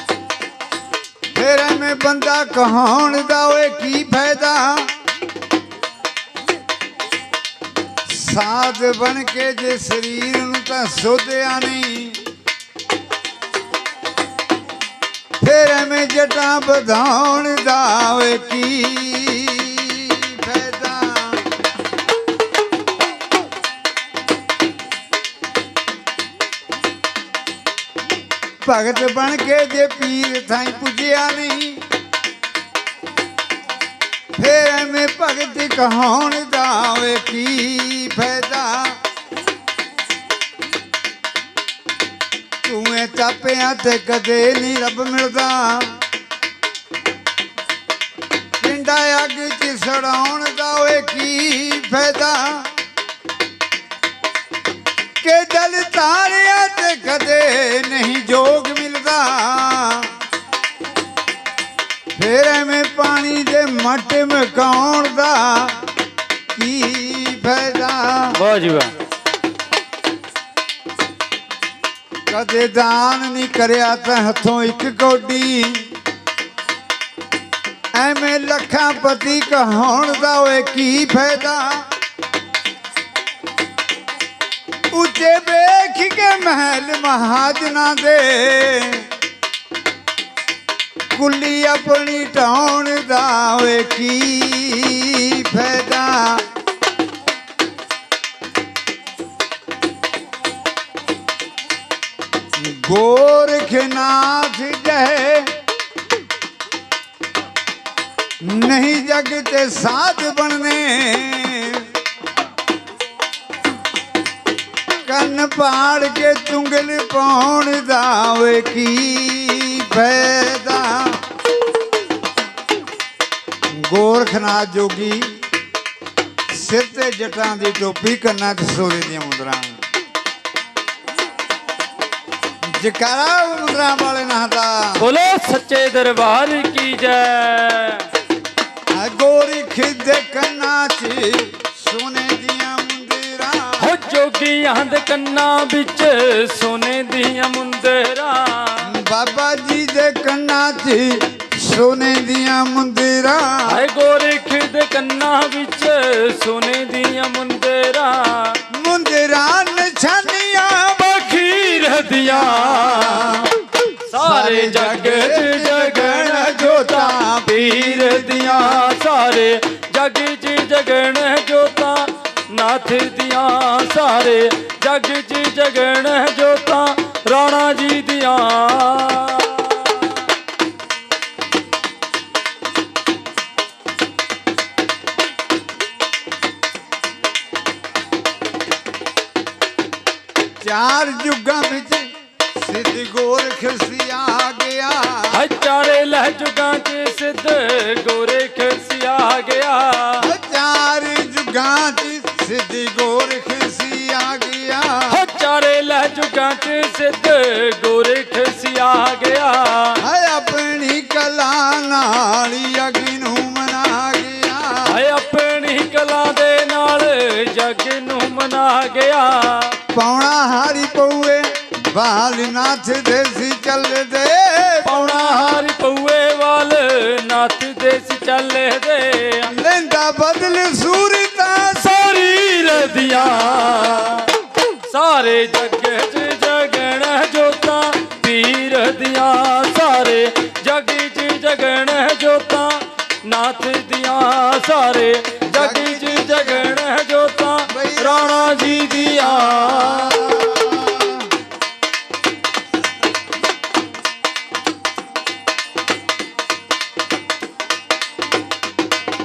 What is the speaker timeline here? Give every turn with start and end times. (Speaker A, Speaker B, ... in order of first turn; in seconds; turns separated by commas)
Speaker A: 1.3-4.9, Speaker A: 8.0-12.2, Speaker A: 15.4-21.5, Speaker A: 28.6-31.9, Speaker A: 34.4-39.0, Speaker A: 42.6-46.0, Speaker A: 48.6-52.7, Speaker A: 55.2-60.1, Speaker A: 62.1-65.8, Speaker A: 66.5-68.4, Speaker B: 68.3-68.9, Speaker A: 72.3-75.9, Speaker A: 77.9-81.9, Speaker A: 84.9-89.1, Speaker A: 91.1-96.5, Speaker A: 102.5-105.6, Speaker A: 108.4-111.9, Speaker A: 115.0-121.2, Speaker A: 123.7-125.4, Speaker A: 126.5-129.8, Speaker A: 132.6-135.0, Speaker B: 135.0-138.1, Speaker A: 138.9-143.9, Speaker B: 143.8-148.9, Speaker A: 148.8-153.8, Speaker B: 153.7-158.6, Speaker A: 158.7-161.1, Speaker B: 161.0-163.5, Speaker A: 162.4-163.5, Speaker B: 164.1-180.2, Speaker A: 164.1-168.9, Speaker A: 190.6-195.4, Speaker B: 195.3-200.3, Speaker A: 200.2-205.2, Speaker B: 205.1-210.0, Speaker A: 210.0-215.0, Speaker B: 214.8-219.8, Speaker A: 219.9-225.3, Speaker B: 224.8-229.5, Speaker A: 229.5-232.0, Speaker B: 231.8-234.3, Speaker B: 234.8-250.5, Speaker A: 245.5-246.8, Speaker A: 247.7-251.3